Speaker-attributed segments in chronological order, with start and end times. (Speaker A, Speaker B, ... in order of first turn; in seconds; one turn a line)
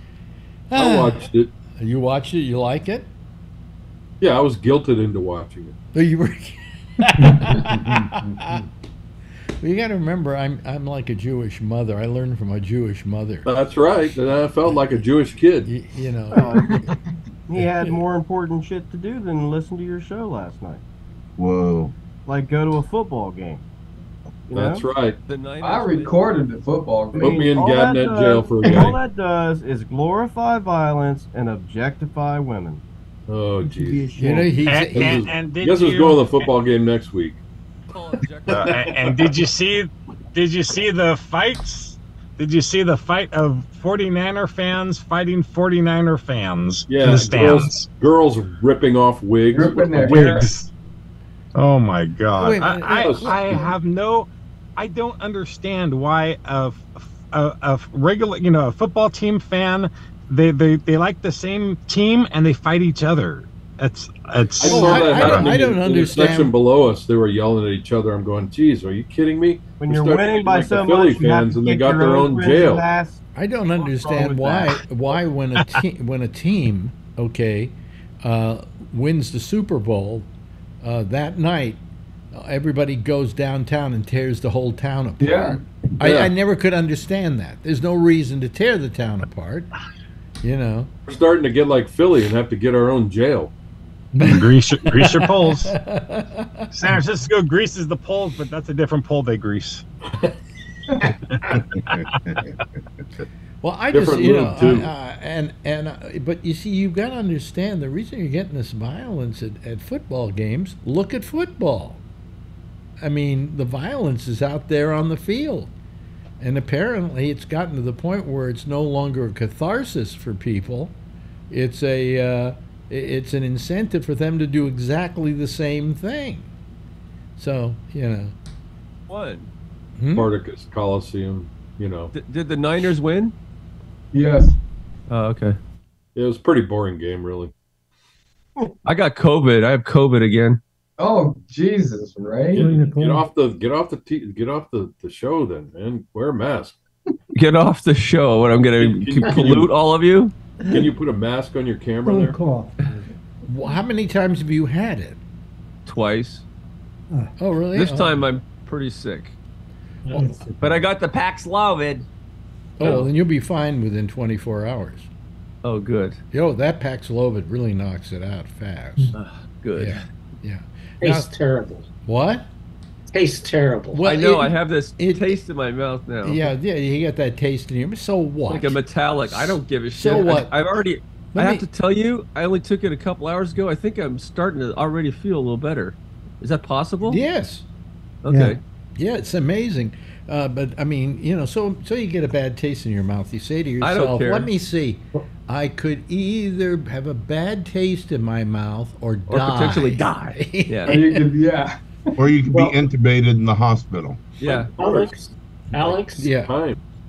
Speaker A: 0.7-3.1
Speaker B: 0.7-1.5
Speaker B: 4.2-5.7
Speaker A: 5.9-8.6
Speaker C: 7.2-8.6
Speaker A: 9.6-13.5
Speaker B: 13.4-15.7
Speaker A: 14.6-15.1
Speaker A: 15.6-16.9
Speaker D: 16.3-16.9
Speaker E: 16.6-16.8
Speaker D: 17.5-20.8
Speaker F: 21.4-21.9
Speaker D: 22.2-23.6
Speaker D: 24.5-24.9
Speaker B: 24.5-25.2
Speaker G: 25.2-26.1
Speaker E: 25.6-27.4
Speaker B: 27.1-29.0
Speaker D: 27.1-32.8
Speaker B: 33.3-34.4
Speaker D: 33.6-34.5
Speaker A: 34.1-35.3
Speaker H: 34.6-36.5
Speaker B: 34.9-37.4
Speaker G: 37.9-39.2
Speaker H: 38.5-47.9
Speaker B: 46.9-50.5
Speaker E: 49.5-50.5
Speaker H: 50.4-50.6
Speaker H: 51.5-65.6
Speaker A: 52.4-53.7
Speaker B: 52.9-53.7
Speaker B: 64.5-72.8
Speaker A: 64.6-66.5
Speaker D: 69.8-73.2
Speaker A: 73.3-80.3
Speaker D: 73.8-74.8
Speaker A: 80.8-81.8
Speaker A: 82.3-89.7
Speaker E: 85.2-85.6
Speaker B: 86.0-86.3
Speaker A: 90.4-90.9
Speaker B: 91.1-93.5
Speaker H: 94.2-95.7
Speaker A: 94.3-96.9
Speaker H: 96.7-99.8
Speaker H: 101.0-102.2
Speaker F: 101.5-102.3
Speaker A: 103.6-112.0
Speaker B: 103.9-104.9
Speaker A: 113.0-115.7
Speaker A: 116.4-120.9
Speaker A: 121.5-126.5
Speaker A: 127.4-128.3
Speaker G: 129.1-129.5
Speaker A: 130.0-130.3
Speaker B: 130.1-132.1
Speaker G: 132.1-133.3
Speaker E: 134.1-134.6
Speaker G: 135.1-135.6
Speaker B: 136.1-137.5
Speaker G: 138.8-140.6
Speaker E: 141.0-142.6
Speaker C: 142.5-143.3
Speaker B: 142.6-146.8
Speaker G: 147.3-150.3
Speaker B: 148.8-149.7
Speaker C: 150.6-150.9
Speaker B: 150.7-152.4
Speaker C: 152.0-153.0
Speaker A: 153.4-155.2
Speaker G: 155.8-156.4
Speaker A: 157.4-158.3
Speaker G: 157.7-159.3
Speaker I: 160.1-160.4
Speaker C: 160.1-160.9
Speaker G: 160.6-162.1
Speaker A: 162.8-165.1
Speaker G: 162.8-163.1
Speaker G: 165.6-166.2
Speaker A: 166.3-169.1
Speaker G: 169.1-170.0
Speaker A: 169.8-171.3
Speaker I: 171.0-171.9
Speaker A: 172.1-172.5
Speaker I: 173.1-174.1
Speaker A: 173.9-175.4
Speaker G: 174.0-176.4
Speaker A: 176.2-180.6
Speaker G: 178.5-187.2
Speaker A: 181.3-181.7
Speaker A: 187.1-187.7
Speaker G: 188.2-188.6
Speaker C: 188.3-188.6
Speaker A: 189.0-201.3
Speaker G: 193.8-194.5
Speaker G: 199.3-201.0
Speaker E: 200.9-201.8
Speaker F: 202.2-204.2
Speaker G: 204.4-205.3
Speaker I: 204.5-205.2
Speaker I: 205.7-206.3
Speaker A: 205.7-206.5
Speaker B: 206.3-206.8